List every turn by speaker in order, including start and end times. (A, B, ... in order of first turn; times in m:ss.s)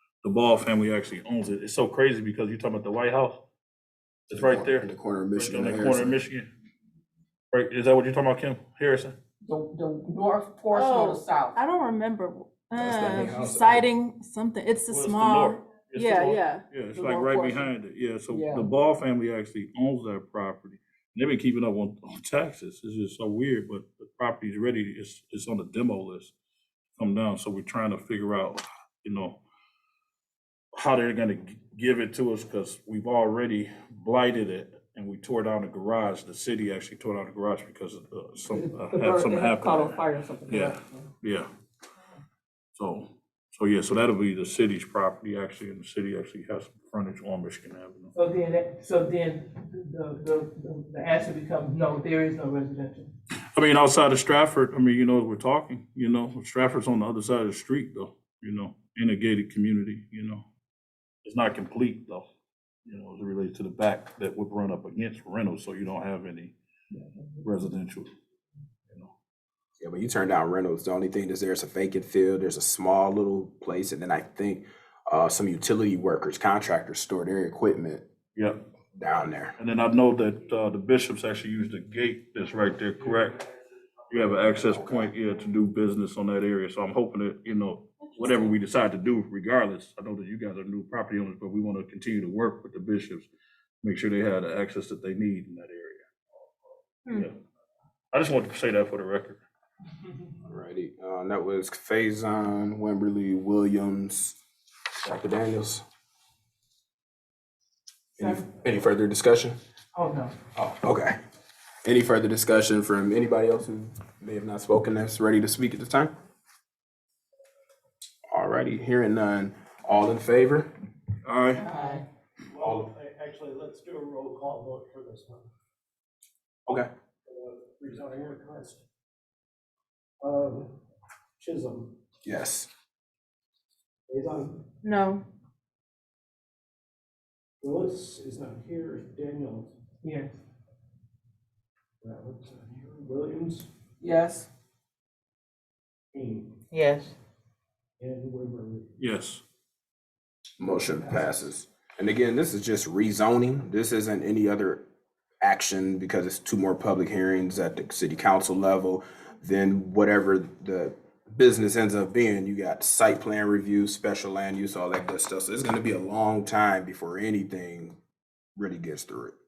0:00.2-0:03.4 A
0:04.3-0:06.5 A
0:04.3-0:06.2 B
0:07.5-0:09.2 A
0:09.4-0:11.7 C
0:10.7-0:16.6 D
0:12.8-0:13.9 B
0:14.9-0:26.3 A
0:16.9-0:17.7 C
0:18.3-0:18.7 C
0:27.0-0:29.4 A
0:30.7-0:41.5 A
0:38.5-0:41.0 C
0:42.7-0:48.1 A
0:48.2-0:53.1 E
0:53.5-1:00.4 A
1:01.2-1:02.3 A
1:02.8-1:06.6 A
1:07.4-1:08.1 A
1:09.8-1:18.0 B
1:19.0-1:19.6 B
1:19.6-1:23.4 A
1:24.1-1:33.3 A
1:24.5-1:25.1 B
1:28.1-1:28.5 D
1:33.8-1:36.4 A
1:37.1-1:37.4 A
1:38.1-1:39.4 A
1:40.4-1:44.4 B
1:45.0-1:45.8 B
1:48.2-1:48.4 E
1:48.2-1:49.6 B
1:50.0-1:50.3 E
1:50.6-1:51.1 B
1:51.8-1:56.1 B
1:58.3-2:00.7 B
2:01.2-2:01.7 A
2:01.6-2:02.0 C
2:02.5-2:05.5 F
2:02.6-2:02.9 B
2:07.2-2:08.8 F
2:10.2-2:10.8 F
2:11.4-2:12.0 F
2:12.2-2:12.7 B
2:14.1-2:14.6 F
2:14.8-2:15.2 D
2:17.6-2:19.8 F
2:20.0-2:20.4 E
2:22.0-2:23.7 F
2:24.0-2:24.5 C
2:26.1-2:26.6 F
2:28.0-2:28.9 F
2:29.0-2:29.4 A
2:30.6-2:34.8 B
2:31.0-2:31.3 F
2:35.4-2:48.0 B
2:48.6-2:49.4 B